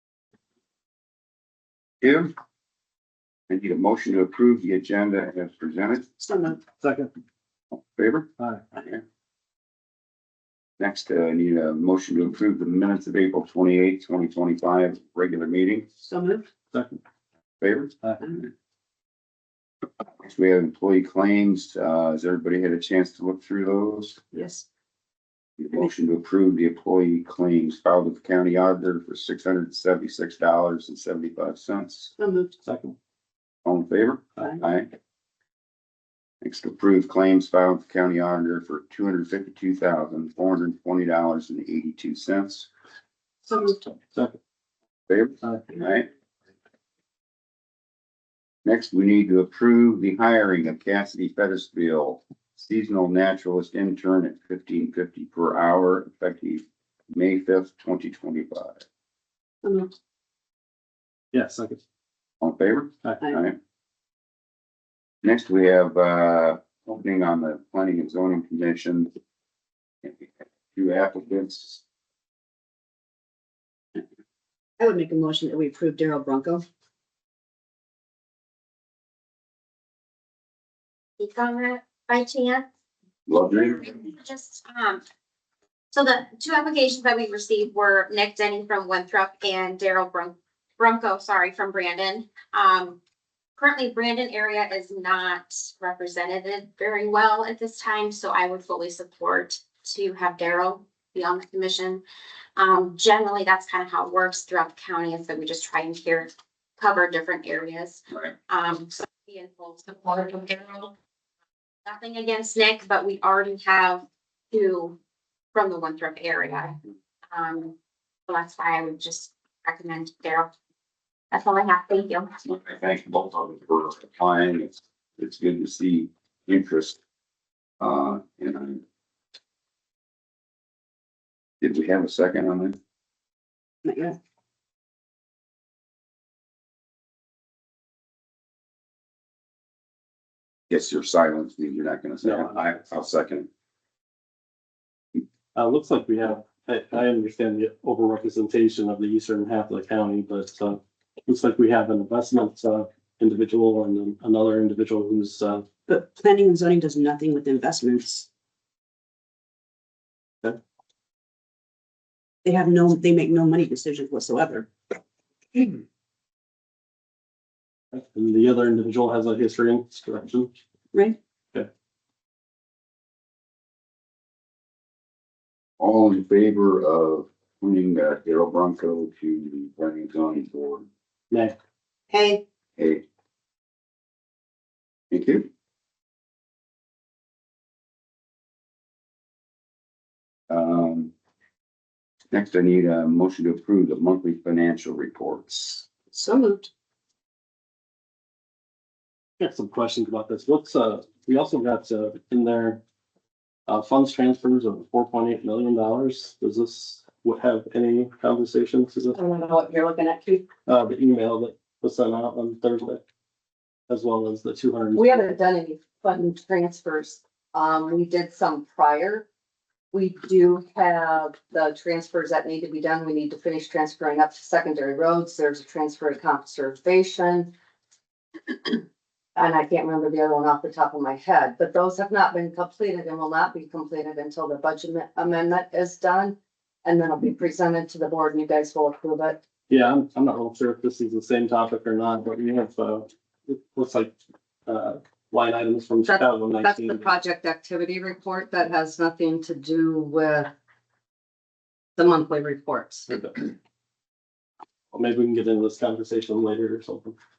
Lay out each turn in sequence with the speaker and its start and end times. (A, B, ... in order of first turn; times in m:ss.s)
0:02.0-0:02.3 A
0:03.5-0:06.0 A
0:06.2-0:06.6 B
0:06.6-0:07.1 C
0:07.9-0:08.3 A
0:08.4-0:08.7 C
0:10.8-0:15.8 A
0:16.0-0:16.5 B
0:16.7-0:17.0 C
0:17.6-0:18.0 A
0:20.2-0:24.2 A
0:24.3-0:24.6 B
0:25.6-0:32.1 A
0:32.2-0:32.5 B
0:32.6-0:32.9 C
0:33.6-0:34.9 A
0:36.4-0:42.7 A
0:43.5-0:43.9 B
0:44.1-0:44.4 C
0:45.1-0:46.1 A
0:48.6-0:58.8 A
0:59.6-0:59.9 B
1:01.3-1:01.8 C
1:02.4-1:03.6 A
1:05.2-1:09.1 A
1:10.0-1:11.8 A
1:14.8-1:16.6 B
1:21.2-1:22.7 D
1:23.3-1:23.9 A
1:23.5-1:25.0 D
1:25.9-1:33.0 D
1:33.6-1:42.0 D
1:42.6-1:50.9 D
1:51.8-1:55.0 D
1:55.5-1:56.8 D
1:57.3-1:57.7 D
1:58.3-2:00.5 D
2:01.3-2:02.3 D
2:02.4-2:07.0 A
2:07.8-2:08.8 A
2:11.6-2:12.8 A
2:13.8-2:14.2 B
2:20.7-2:23.5 A
2:22.2-2:22.6 C
2:25.5-2:35.7 C
2:35.8-2:38.3 B
2:42.4-2:44.7 B
2:47.9-2:50.5 C
2:50.9-2:51.2 B
2:55.8-3:00.9 A
3:02.1-3:02.4 B
3:02.8-3:03.0 A
3:05.1-3:05.5 A
3:10.5-3:11.1 A
3:12.3-3:15.9 A
3:16.1-3:16.7 B
3:19.4-3:22.8 C
3:23.7-3:29.2 C
3:29.1-3:30.4 E
3:30.7-3:33.0 C
3:33.9-3:35.2 C
3:34.9-3:39.3 E
3:39.9-3:47.5 E
3:49.3-3:59.4 E
3:59.7-4:04.1 C
4:04.6-4:07.1 C
4:06.0-4:10.5 E
4:12.0-4:13.3 E
4:14.9-4:17.1 C